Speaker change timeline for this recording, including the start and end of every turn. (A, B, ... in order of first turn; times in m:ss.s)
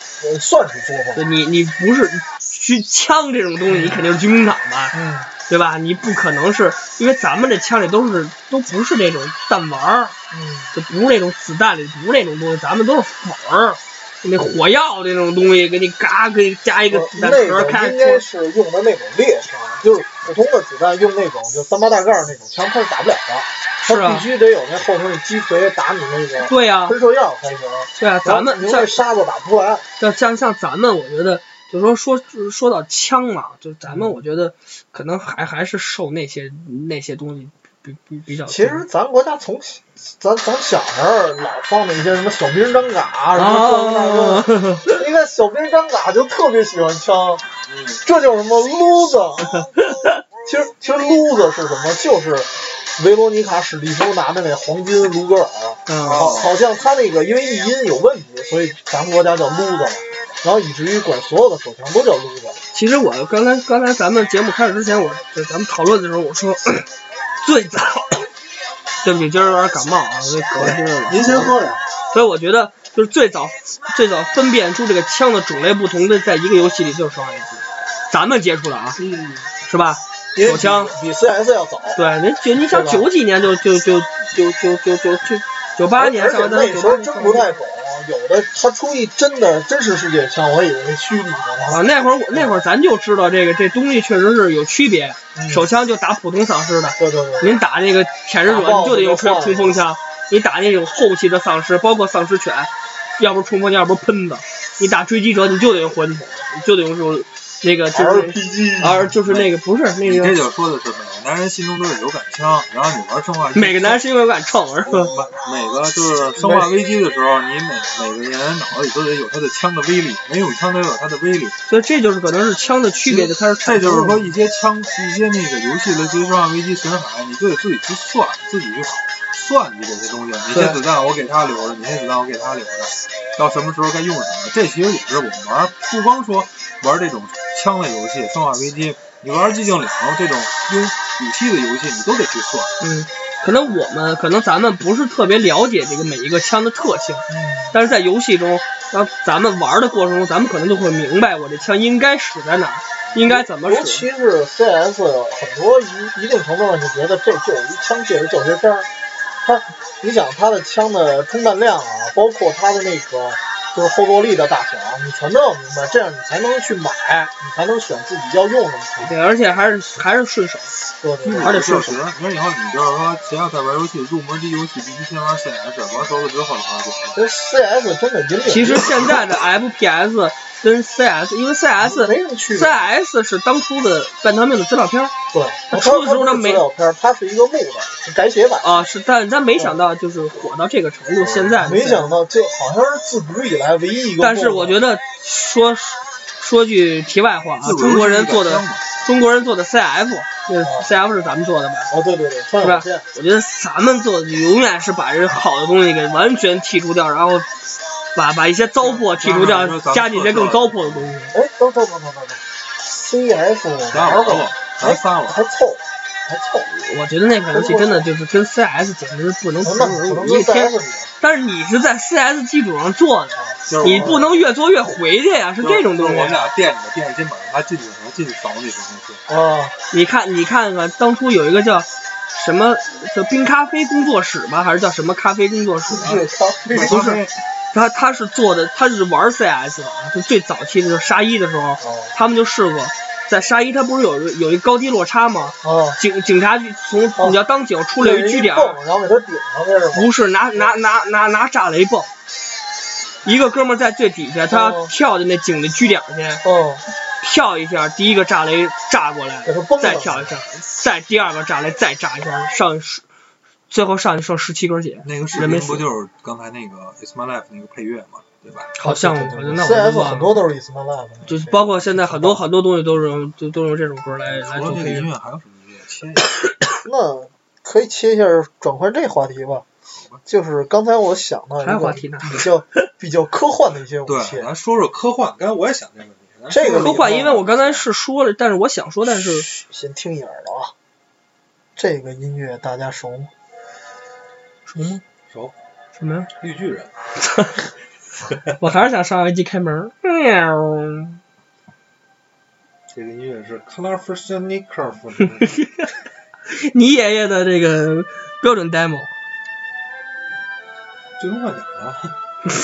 0:00.2-0:01.2 A
0:01.1-0:05.0 B
0:03.7-0:04.0 A
0:04.9-0:05.3 A
0:05.5-0:10.2 B
0:10.3-0:10.7 A
0:10.7-0:18.2 B
0:16.9-0:29.9 A
0:23.8-0:24.3 B
0:26.4-0:27.0 B
0:28.0-0:29.0 B
0:30.0-0:38.8 B
0:38.4-0:47.4 A
0:43.3-0:45.0 B
0:47.7-0:48.0 C
0:48.0-1:02.6 A
0:49.6-0:50.2 B
0:55.9-0:56.3 B
0:56.0-0:56.6 C
1:02.7-1:06.9 B
1:07.4-1:08.3 B
1:09.0-1:11.5 B
1:11.1-1:11.8 A
1:11.1-1:11.5 C
1:12.1-1:19.0 B
1:19.0-1:19.5 A
1:19.6-1:20.9 B
1:20.3-1:22.0 A
1:22.0-1:27.6 B
1:22.6-1:23.1 A
1:26.0-1:32.5 A
1:31.7-1:50.4 B
1:35.3-1:35.7 A
1:37.0-1:37.6 A
1:38.4-1:39.8 A
1:47.9-1:49.1 A
1:49.3-1:49.5 C
1:50.0-1:54.0 C
1:53.6-1:55.1 B
1:54.8-2:01.6 C
1:56.4-1:56.7 A
2:01.7-2:04.2 B
2:03.0-2:22.7 C
2:10.5-2:10.8 B
2:22.8-2:34.0 B
2:27.3-2:27.7 A
2:33.3-2:38.9 A
2:39.4-2:49.1 A
2:49.0-2:50.7 B
2:51.0-2:52.0 A
2:51.2-2:57.2 C
2:51.4-2:52.0 B
2:57.1-2:59.2 A
2:58.5-3:05.1 B
3:01.8-3:02.9 A
3:05.3-3:08.9 A
3:05.7-3:06.6 B
3:08.6-3:12.1 B
3:11.3-3:14.8 A
3:14.2-3:21.9 B
3:17.6-3:18.9 C
3:20.6-3:20.9 A
3:21.9-3:23.0 A
3:22.6-3:27.5 B
3:28.1-3:31.3 B
3:28.8-3:31.1 C
3:31.3-3:36.9 A
3:33.9-3:35.5 C
3:36.9-3:46.5 B
3:37.5-3:38.1 A
3:39.6-3:41.1 A
3:43.4-3:44.2 A
3:43.7-3:44.4 C
3:45.6-3:49.2 C
3:49.3-3:49.7 A
3:49.9-3:56.2 B
3:55.9-3:57.2 A
3:56.7-3:57.3 C
3:56.8-3:57.2 B
3:57.7-4:08.8 B
4:01.8-4:02.1 A
4:05.6-4:06.0 A
4:08.0-4:10.1 A
4:09.9-4:12.1 B
4:13.2-4:16.4 B
4:14.5-4:14.9 A
4:16.4-4:16.8 A
4:17.2-4:23.0 B
4:19.4-4:20.3 A
4:23.7-4:25.9 B
4:25.0-4:28.7 C
4:28.7-4:30.3 B
4:28.8-4:32.4 A
4:31.3-4:35.1 B
4:34.3-4:36.3 C
4:36.8-4:39.6 A
4:40.0-4:40.2 C
4:40.3-4:44.5 A
4:41.6-4:42.5 B
4:44.0-4:47.9 C
4:46.5-4:47.4 A
4:46.7-4:49.5 B
4:49.2-4:50.7 A
4:51.8-4:53.3 A
4:54.7-4:55.0 B
4:56.0-4:56.3 B
4:56.4-4:56.9 C
4:57.2-4:57.6 B
4:58.6-5:01.2 B
5:02.9-5:05.5 C
5:05.4-5:05.9 B
5:06.5-5:09.1 B
5:11.2-5:12.1 C